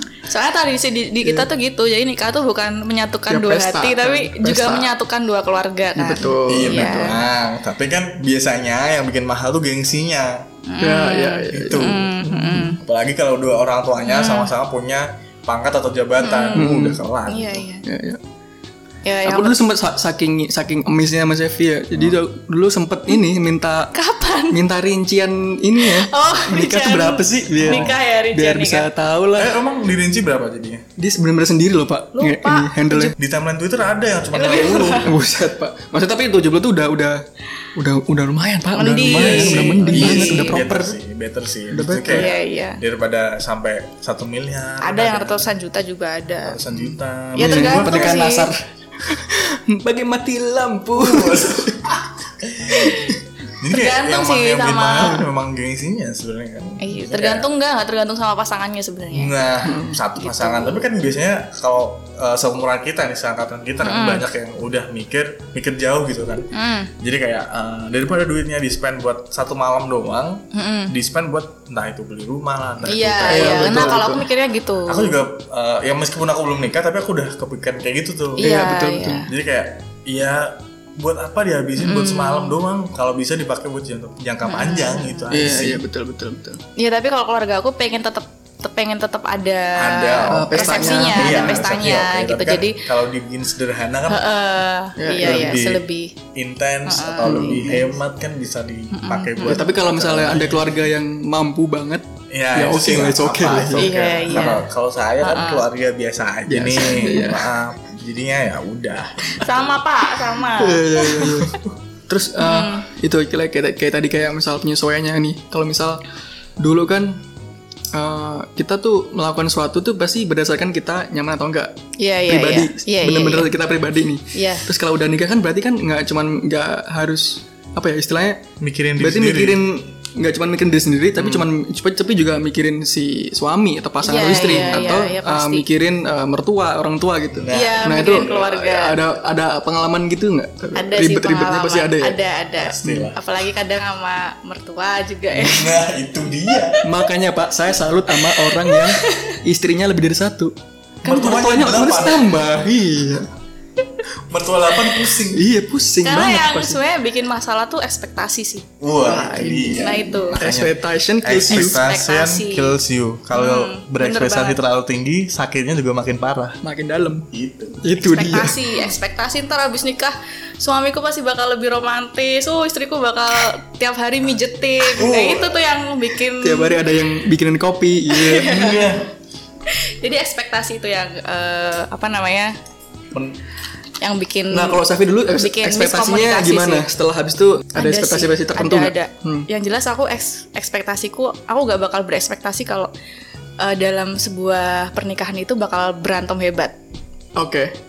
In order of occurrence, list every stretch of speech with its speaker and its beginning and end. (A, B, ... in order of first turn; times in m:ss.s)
0:00.3-0:07.2 A
0:03.3-0:04.9 B
0:06.0-0:07.2 B
0:06.5-0:10.5 C
0:10.7-0:12.8 A
0:10.8-0:12.8 B
0:11.5-0:12.1 C
0:12.8-0:17.6 C
0:14.0-0:14.5 A
0:16.2-0:16.7 A
0:16.6-0:17.0 B
0:17.3-0:17.8 A
0:17.9-0:18.2 B
0:19.0-0:19.6 A
0:19.3-0:23.9 B
0:23.9-0:24.6 A
0:24.5-0:29.6 B
0:25.8-0:28.9 A
0:27.6-0:28.0 C
0:29.4-0:30.8 C
0:31.0-0:33.2 B
0:32.2-0:33.1 A
0:33.2-0:35.2 C
0:34.3-0:35.1 A
0:35.0-0:37.2 B
0:37.8-0:41.0 B
0:38.8-0:40.6 A
0:39.1-0:45.5 C
0:41.7-0:42.3 B
0:42.1-0:42.8 A
0:44.8-0:46.6 A
0:46.5-0:48.2 C
0:47.4-0:48.5 A
0:47.4-0:51.8 B
0:51.0-0:53.1 C
0:52.7-0:53.2 A
0:52.9-0:53.2 B
0:53.6-0:57.5 C
0:53.7-0:55.2 A
0:56.8-0:59.3 A
0:59.1-1:14.1 C
0:59.6-1:00.0 B
1:00.2-1:00.8 A
1:03.8-1:04.2 A
1:06.5-1:06.9 A
1:10.5-1:10.9 A
1:12.8-1:15.2 A
1:13.3-1:14.3 B
1:14.9-1:18.7 C
1:18.4-1:19.3 A
1:18.4-1:19.3 B
1:19.2-1:25.8 C
1:21.8-1:22.6 A
1:24.4-1:25.3 A
1:25.3-1:26.6 B
1:26.8-1:32.8 A
1:29.8-1:34.3 C
1:30.3-1:31.6 B
1:34.1-1:36.2 A
1:35.0-1:35.6 B
1:35.2-1:35.8 C
1:36.4-1:40.8 C
1:36.9-1:37.8 A
1:37.2-1:37.9 B
1:38.9-1:39.6 A
1:39.4-1:42.0 B
1:42.3-1:49.8 C
1:42.6-1:44.6 B
1:43.8-1:44.6 A
1:45.2-1:45.6 A
1:46.5-1:47.5 B
1:49.3-1:51.6 A
1:50.6-1:56.0 B
1:52.4-1:52.9 A
1:56.6-1:57.2 B
1:57.9-2:08.4 B
2:02.0-2:03.5 A
2:04.3-2:04.7 A
2:08.6-2:09.6 C
2:09.0-2:22.2 B
2:11.2-2:11.5 C
2:14.0-2:15.7 A
2:14.5-2:14.9 C
2:17.3-2:18.4 C
2:17.5-2:19.0 A
2:20.8-2:25.8 A
2:22.6-2:23.2 C
2:22.8-2:23.1 B
2:25.3-2:26.8 C
2:26.5-2:26.8 A
2:26.8-2:33.3 B
2:28.1-2:29.4 A
2:31.0-2:32.5 C
2:34.3-2:35.5 C
2:35.3-2:36.8 B
2:36.0-2:38.7 A
2:38.8-2:46.6 C
2:39.0-2:41.8 B
2:39.8-2:40.4 A
2:41.5-2:42.8 A
2:43.3-2:44.6 A
2:46.6-2:47.3 B
2:47.3-2:47.8 C
2:47.8-2:48.8 B
2:48.0-2:56.8 A
2:54.8-2:55.6 C
2:56.4-2:58.7 B
2:58.1-2:58.8 A
2:58.4-2:59.1 C
2:59.7-3:02.5 A
3:03.1-3:03.4 C
3:04.0-3:04.8 A
3:04.5-3:09.5 B
3:05.3-3:06.8 A
3:07.8-3:12.9 A
3:13.6-3:16.8 A
3:17.4-3:17.7 B